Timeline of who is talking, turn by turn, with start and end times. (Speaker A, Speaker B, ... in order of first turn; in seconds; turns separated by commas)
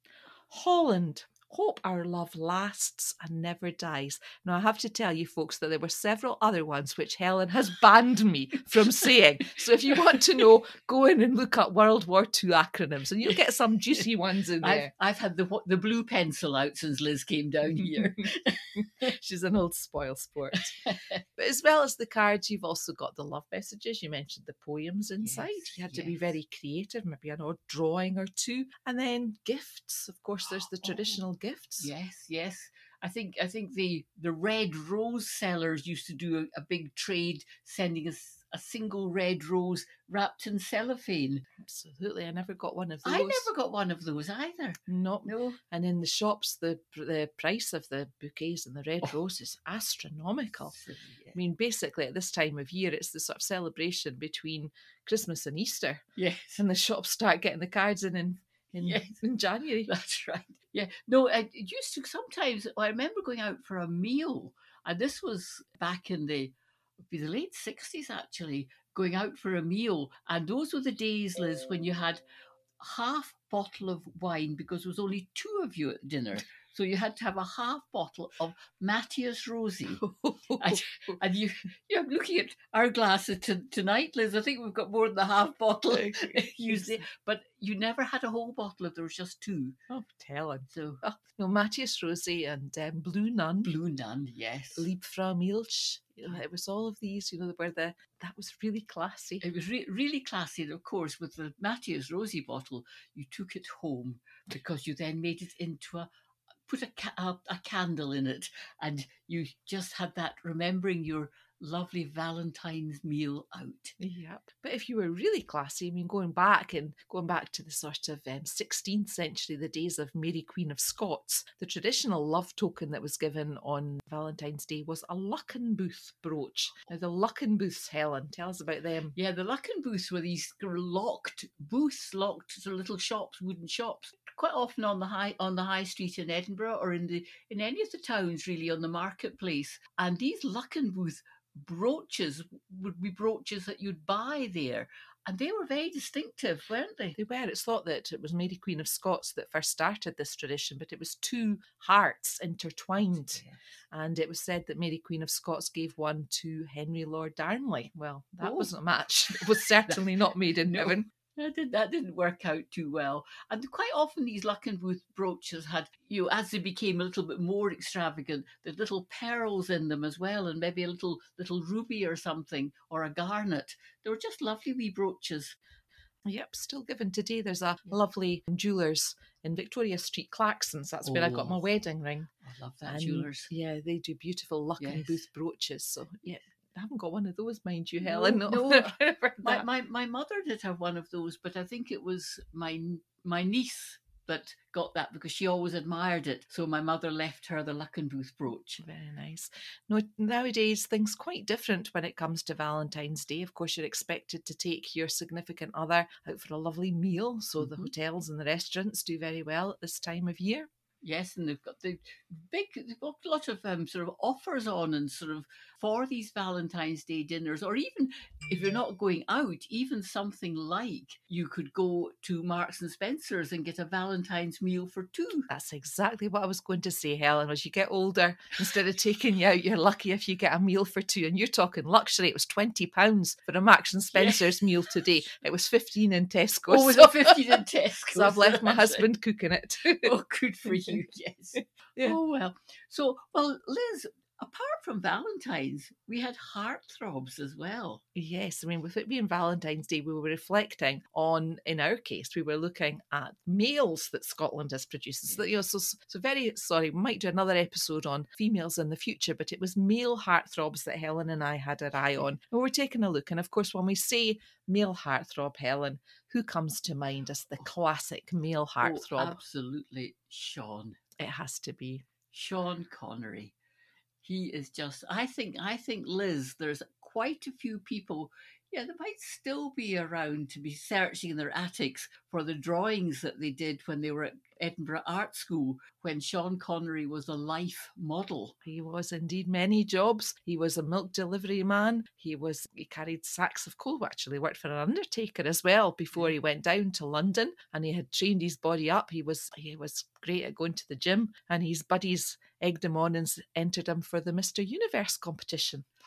Speaker A: 0.5-14.9, Speaker B: 14.6-19.1, Speaker A: 17.8-18.1, Speaker A: 19.0-20.7, Speaker B: 20.5-21.2, Speaker A: 21.4-31.9, Speaker B: 25.2-26.2, Speaker B: 30.8-31.2, Speaker B: 31.8-41.5, Speaker A: 41.6-43.5, Speaker B: 43.0-45.6, Speaker A: 44.9-50.8, Speaker B: 50.7-51.4, Speaker A: 51.4-56.0, Speaker B: 56.2-56.6, Speaker A: 56.6-59.9, Speaker B: 58.7-59.2, Speaker B: 59.9-66.5, Speaker B: 67.1-72.2, Speaker B: 72.8-80.0, Speaker A: 80.0-81.2, Speaker B: 80.6-89.8, Speaker A: 85.9-87.0, Speaker A: 89.9-93.7, Speaker B: 90.7-91.0, Speaker B: 93.6-94.9, Speaker A: 94.8-99.4, Speaker B: 99.4-106.1, Speaker B: 106.7-114.0, Speaker A: 114.0-129.2, Speaker B: 129.2-147.2, Speaker A: 147.2-161.1, Speaker B: 158.4-158.7, Speaker B: 159.3-160.0, Speaker B: 160.6-175.6, Speaker A: 176.2-182.3, Speaker B: 181.0-181.6, Speaker B: 182.4-183.5, Speaker A: 182.9-189.7, Speaker B: 184.8-185.2, Speaker B: 188.0-198.8, Speaker A: 198.8-210.7, Speaker B: 207.6-207.9, Speaker B: 211.0-225.5, Speaker A: 225.5-240.1, Speaker B: 234.1-234.6, Speaker B: 236.7-239.1, Speaker B: 240.0-248.0, Speaker A: 240.7-241.0, Speaker A: 248.2-269.4, Speaker B: 268.8-271.0, Speaker A: 271.2-272.1, Speaker B: 272.3-273.5, Speaker B: 274.2-288.6, Speaker A: 288.6-305.9